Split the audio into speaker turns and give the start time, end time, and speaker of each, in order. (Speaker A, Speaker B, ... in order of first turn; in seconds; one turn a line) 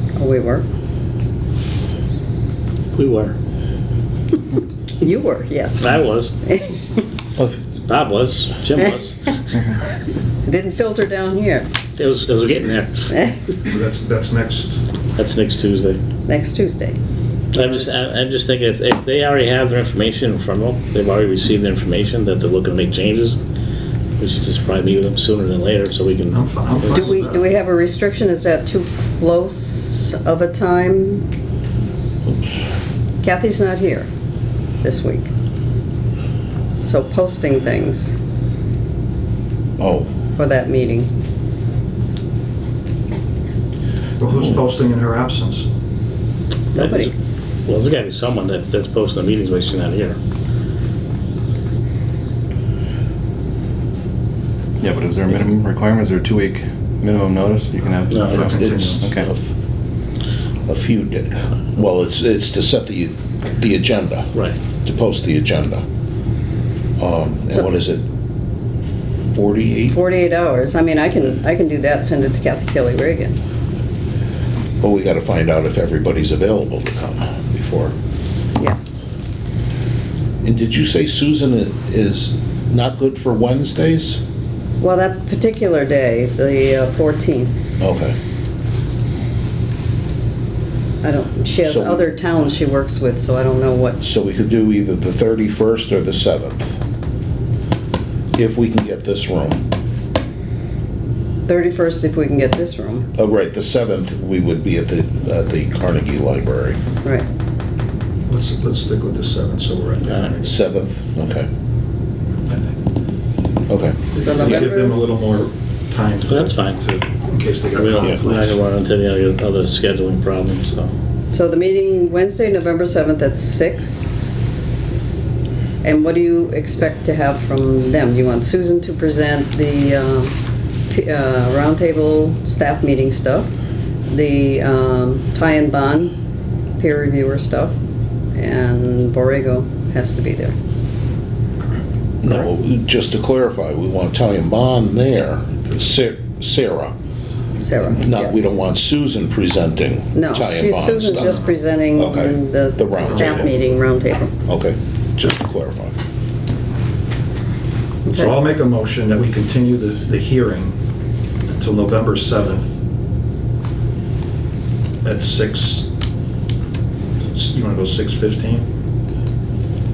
Speaker A: 0.2-0.7
Speaker B: 3.0-3.4
Speaker A: 5.0-6.0
Speaker B: 5.8-6.3
Speaker A: 6.5-6.7
Speaker B: 7.9-9.4
Speaker A: 10.4-11.7
Speaker B: 12.0-13.3
Speaker C: 13.6-14.8
Speaker B: 15.2-16.0
Speaker A: 16.3-17.0
Speaker B: 17.5-23.4
Speaker B: 24.2-27.1
Speaker C: 26.3-27.5
Speaker A: 26.9-31.2
Speaker D: 32.3-32.5
Speaker A: 33.2-34.1
Speaker A: 34.8-35.3
Speaker A: 36.8-38.2
Speaker D: 39.8-40.1
Speaker A: 40.4-41.1
Speaker C: 44.2-45.7
Speaker A: 46.8-47.1
Speaker B: 46.8-47.1
Speaker B: 47.7-50.2
Speaker E: 54.8-59.3
Speaker B: 58.1-58.4
Speaker C: 58.1-59.1
Speaker D: 58.5-59.5
Speaker D: 60.7-64.3
Speaker D: 64.8-65.8
Speaker D: 67.0-68.0
Speaker D: 69.3-70.0
Speaker A: 69.9-73.4
Speaker D: 74.8-77.9
Speaker D: 80.4-84.2
Speaker A: 84.8-87.6
Speaker D: 87.8-88.2
Speaker A: 91.0-94.0
Speaker D: 91.6-92.1
Speaker D: 94.0-96.8
Speaker D: 98.4-99.7
Speaker A: 101.5-103.1
Speaker D: 103.2-106.8
Speaker C: 108.3-110.6
Speaker B: 110.0-110.4
Speaker D: 110.4-111.5
Speaker C: 112.5-112.8
Speaker D: 113.7-114.1
Speaker C: 114.1-118.6
Speaker A: 114.2-115.0
Speaker B: 116.3-116.8
Speaker B: 117.8-120.9
Speaker A: 121.3-124.8
Speaker A: 125.8-130.3
Speaker A: 130.9-133.5
Speaker A: 134.1-136.2
Speaker A: 136.8-137.8
Speaker A: 138.4-140.6
Speaker D: 142.2-146.9
Speaker A: 147.6-148.5
Speaker D: 147.8-151.4
Speaker A: 150.1-154.4
Speaker C: 151.2-151.5
Speaker D: 151.9-153.5
Speaker C: 153.0-153.6
Speaker D: 154.5-155.9
Speaker A: 158.1-158.4
Speaker C: 158.1-160.8
Speaker C: 161.5-162.8
Speaker C: 165.0-165.9
Speaker C: 167.3-168.7